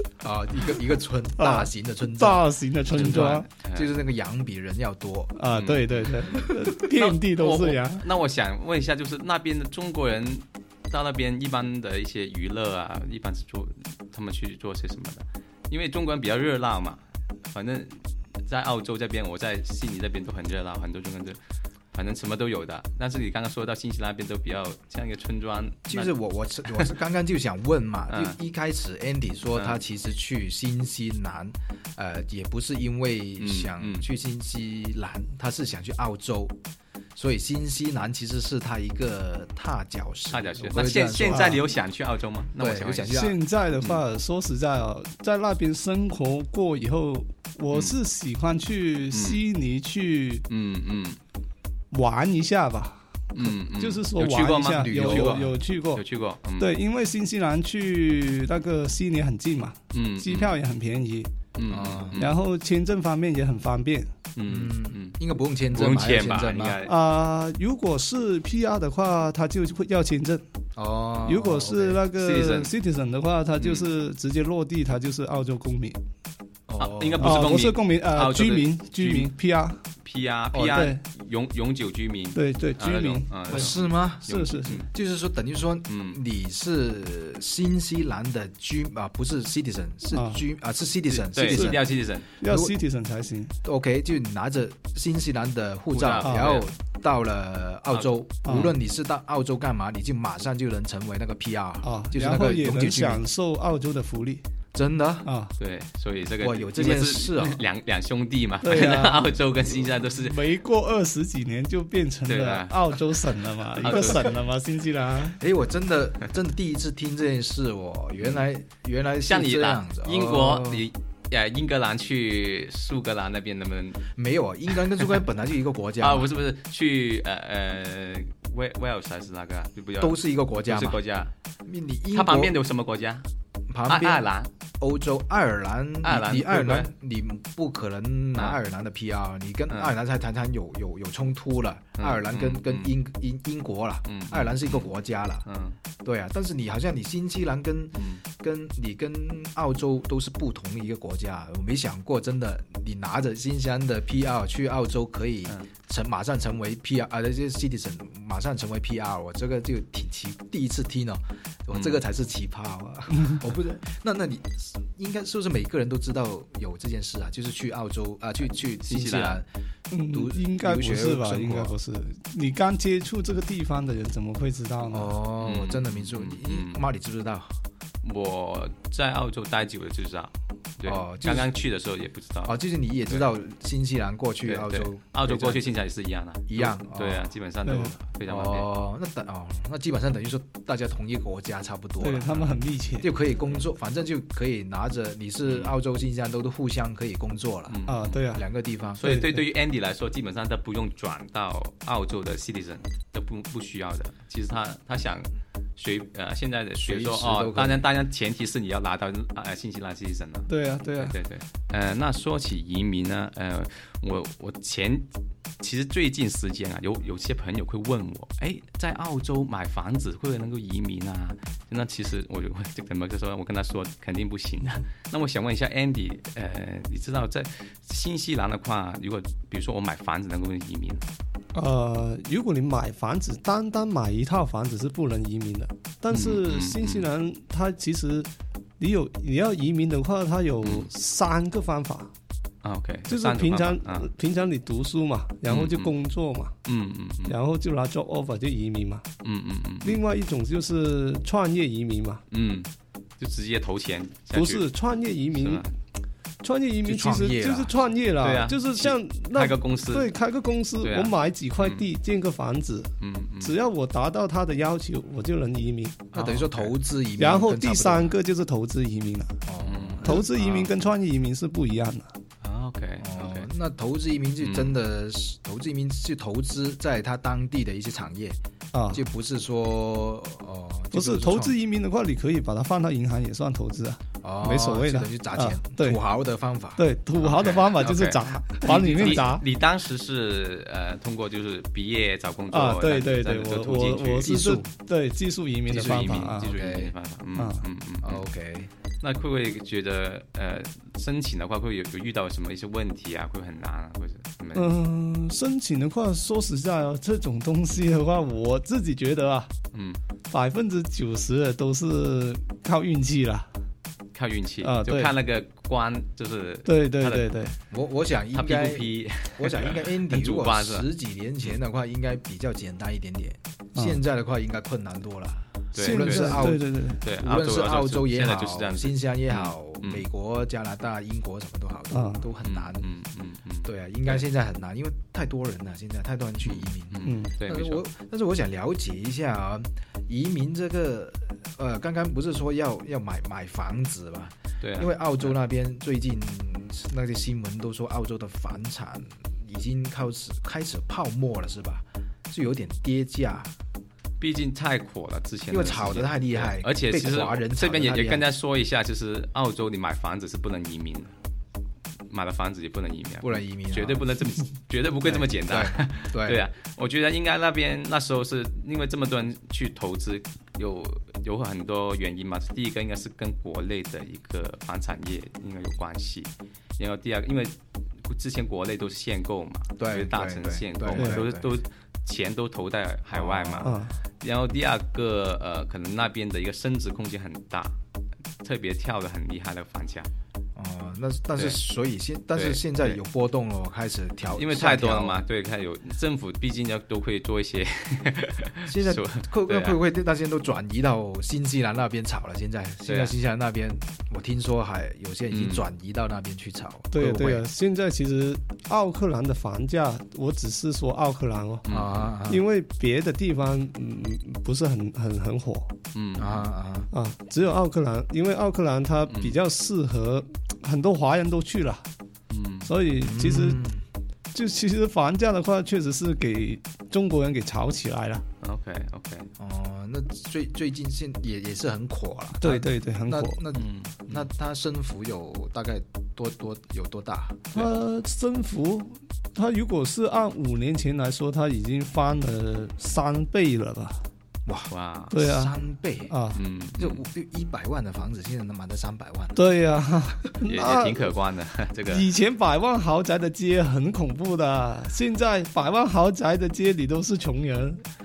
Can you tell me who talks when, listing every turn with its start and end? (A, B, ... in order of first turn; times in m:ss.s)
0:00.2-0:05.3 A
0:01.4-0:03.4 B
0:02.9-0:03.9 C
0:05.4-0:08.0 B
0:05.5-0:21.4 C
0:21.9-0:26.1 C
0:25.9-0:36.6 A
0:28.1-0:28.4 C
0:33.4-0:34.0 C
0:37.1-0:41.6 A
0:40.3-0:43.2 C
0:41.2-0:41.6 B
0:42.6-0:43.4 A
0:43.1-0:50.4 B
0:47.7-0:48.0 C
0:49.1-0:49.4 C
0:50.5-0:51.2 C
0:51.9-0:56.0 B
0:53.3-0:56.7 C
0:54.7-0:55.5 A
0:56.6-1:01.3 B
0:59.9-1:00.5 C
1:01.6-1:02.4 C
1:01.7-1:02.2 A
1:02.2-1:04.1 B
1:04.3-1:05.2 C
1:04.4-1:06.8 A
1:05.7-1:06.9 C
1:06.8-1:10.4 B
1:10.8-1:12.0 A
1:11.2-1:16.0 B
1:12.1-1:12.7 C
1:13.6-1:13.9 C
1:16.7-1:17.5 A
1:16.8-1:19.3 C
1:17.2-1:19.8 B
1:20.0-1:24.9 C
1:20.5-1:20.8 A
1:20.6-1:21.0 B
1:22.3-1:23.7 B
1:23.5-1:32.7 A
1:24.3-1:24.8 B
1:25.9-1:26.2 C
1:30.1-1:30.4 B
1:31.1-1:32.3 C
1:31.4-1:31.8 B
1:32.4-1:33.5 B
1:33.6-1:43.2 A
1:35.9-1:36.7 C
1:36.2-1:36.5 B
1:38.4-1:38.7 B
1:41.8-1:44.4 B
1:44.7-1:45.3 A
1:45.2-1:45.5 B
1:45.6-1:50.4 C
1:46.4-1:47.6 A
1:48.6-1:49.3 B
1:50.2-1:55.4 B
1:52.3-1:54.3 C
1:55.4-2:00.9 A
1:59.2-2:04.1 C
2:04.1-2:06.3 A
2:06.0-2:11.3 C
2:10.0-2:11.0 A
2:11.6-2:12.6 A
2:12.1-2:13.2 C
2:13.7-2:14.3 A
2:13.9-2:14.5 C
2:14.8-2:25.4 A
2:16.0-2:16.9 C
2:22.0-2:22.9 C
2:24.1-2:24.9 C
2:25.4-2:25.8 C
2:26.0-2:49.4 A
2:27.9-2:28.2 C
2:41.7-2:42.0 C
2:48.8-2:49.4 C
2:49.9-2:55.1 B
2:50.1-2:51.7 A
2:54.9-2:57.5 A
2:55.4-2:56.8 C
2:58.0-3:03.3 C
3:00.8-3:01.5 A
3:02.4-3:05.7 A
3:04.4-3:08.7 C
3:06.5-3:07.3 A
3:07.6-3:07.9 B
3:08.3-3:19.0 A
3:12.0-3:13.1 B
3:15.5-3:15.7 C
3:17.7-3:18.2 C
3:17.9-3:18.4 B
3:19.0-3:35.1 C
3:19.0-3:19.4 B
3:26.8-3:27.8 A
3:30.5-3:31.1 B
3:35.6-3:51.0 C
3:51.5-4:02.1 B
3:56.1-3:57.1 C
4:00.6-4:00.9 C
4:02.6-4:04.1 C
4:03.1-4:06.5 B
4:05.5-4:05.9 C
4:06.6-4:07.4 C
4:07.2-4:09.0 B
4:09.2-4:10.0 C
4:09.8-4:12.2 B
4:12.3-4:14.6 C
4:14.3-4:15.7 B
4:15.3-4:15.7 C
4:16.4-4:22.9 B
4:16.8-4:17.8 A
4:18.2-4:20.1 C
4:20.8-4:21.8 C
4:23.0-4:23.6 C
4:23.4-4:26.0 B
4:26.1-4:26.7 C
4:26.1-4:28.1 A
4:27.2-4:29.3 B
4:29.4-4:30.7 A
4:29.6-4:30.3 C
4:30.0-4:32.1 B
4:32.4-4:33.5 C
4:33.0-4:38.4 A
4:34.4-4:34.7 C
4:38.7-4:39.0 B
4:38.9-4:41.6 A
4:40.9-4:46.0 B
4:44.2-4:46.8 A
4:46.8-4:49.4 B
4:47.2-4:54.3 C
4:48.7-4:49.2 A
4:52.5-4:56.5 B
4:54.2-4:54.7 A
4:55.7-4:58.2 C
4:55.7-4:56.9 A
4:57.4-4:57.6 B
4:58.0-4:58.7 A
4:59.0-5:04.7 C
5:04.5-5:09.5 B
5:09.7-5:10.0 C
5:10.3-5:13.5 B
5:14.1-5:17.3 C
5:14.6-5:15.1 B
5:16.6-5:17.5 B
5:17.7-5:32.9 A
5:18.3-5:20.9 C
5:25.7-5:30.0 C
5:25.8-5:27.0 B
5:31.9-5:32.2 B
5:32.4-5:34.2 C
5:33.6-5:53.5 A
5:36.4-5:37.8 C
5:37.0-5:37.3 B
5:44.6-5:45.3 C
5:54.2-6:01.1 C
5:55.5-5:58.3 A
6:02.1-6:27.7 C
6:03.2-6:04.0 A
6:05.0-6:06.4 A
6:19.8-6:21.5 A
6:23.1-6:23.8 A
6:23.6-6:24.0 B
6:28.4-6:30.1 C
6:30.6-6:35.2 A
6:32.3-6:33.0 C
6:34.3-6:39.8 C
6:38.6-6:47.4 A
6:42.8-6:43.1 C
6:45.3-6:45.7 C
6:46.9-6:51.6 B
6:51.6-6:52.1 C
6:51.7-6:52.4 A
6:52.3-6:55.7 B
6:55.9-6:56.4 C
6:56.2-6:56.9 A
6:56.9-7:01.8 B
6:59.1-6:59.4 C
7:02.3-7:02.7 C
7:02.6-7:03.6 B
7:03.0-7:03.8 A
7:04.3-7:08.2 B
7:08.4-7:09.3 C
7:09.4-7:17.6 A
7:12.4-7:13.4 B
7:13.5-7:14.2 C
7:17.5-7:24.0 B
7:24.4-7:26.1 A
7:24.7-7:25.1 C
7:25.1-7:25.5 B
7:26.1-7:26.4 B
7:26.3-7:27.0 C
7:26.8-7:29.4 A
7:29.4-7:31.1 B
7:30.4-7:32.1 C
7:31.9-7:37.8 B